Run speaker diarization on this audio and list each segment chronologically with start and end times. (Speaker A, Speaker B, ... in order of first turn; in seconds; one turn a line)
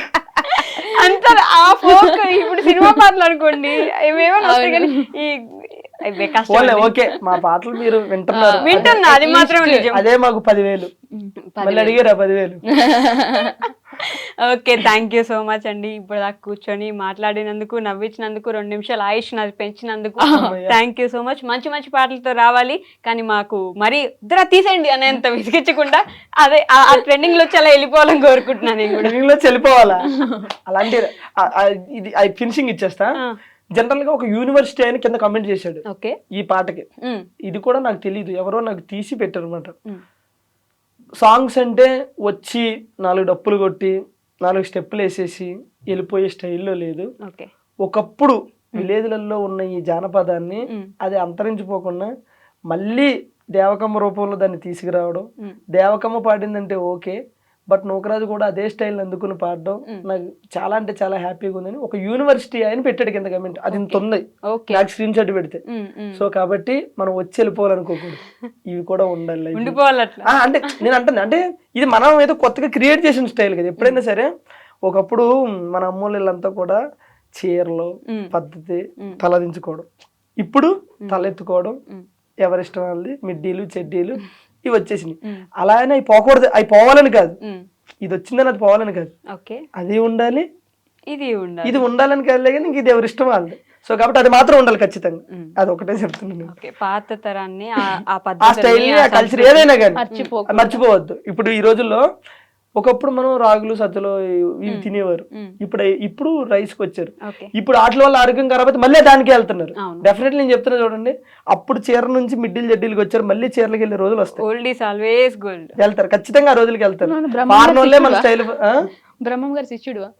Speaker A: 0.5-7.2
Speaker B: 0.6-0.9
Speaker B: 1.8-3.0
Speaker B: 4.4-5.0
Speaker C: 6.5-9.0
Speaker B: 8.3-9.9
Speaker A: 8.6-10.0
Speaker C: 9.9-10.9
Speaker A: 11.1-11.9
Speaker C: 11.6-12.6
Speaker B: 12.7-13.6
Speaker A: 13.4-29.1
Speaker B: 20.2-20.6
Speaker C: 20.3-20.8
Speaker C: 29.0-30.1
Speaker B: 30.1-30.5
Speaker C: 30.6-33.1
Speaker C: 33.7-36.8
Speaker A: 35.9-36.1
Speaker A: 37.0-37.3
Speaker C: 37.4-39.7
Speaker C: 41.2-47.1
Speaker A: 47.2-47.5
Speaker C: 47.8-52.1
Speaker C: 52.7-57.1
Speaker C: 57.7-65.6
Speaker A: 63.7-64.8
Speaker A: 65.7-66.2
Speaker C: 66.1-74.3
Speaker A: 69.5-70.3
Speaker C: 74.8-76.8
Speaker C: 77.4-79.9
Speaker C: 80.4-81.8
Speaker A: 81.0-81.3
Speaker C: 82.4-87.4
Speaker C: 88.0-89.1
Speaker A: 89.3-89.6
Speaker C: 89.8-90.5
Speaker A: 91.1-91.8
Speaker C: 91.6-96.5
Speaker A: 96.5-100.3
Speaker C: 98.4-102.0
Speaker B: 100.0-100.8
Speaker C: 102.8-114.4
Speaker A: 104.7-105.5
Speaker A: 107.2-107.5
Speaker A: 109.8-110.0
Speaker A: 114.4-115.7
Speaker C: 115.8-118.7
Speaker B: 117.0-118.3
Speaker B: 119.2-120.1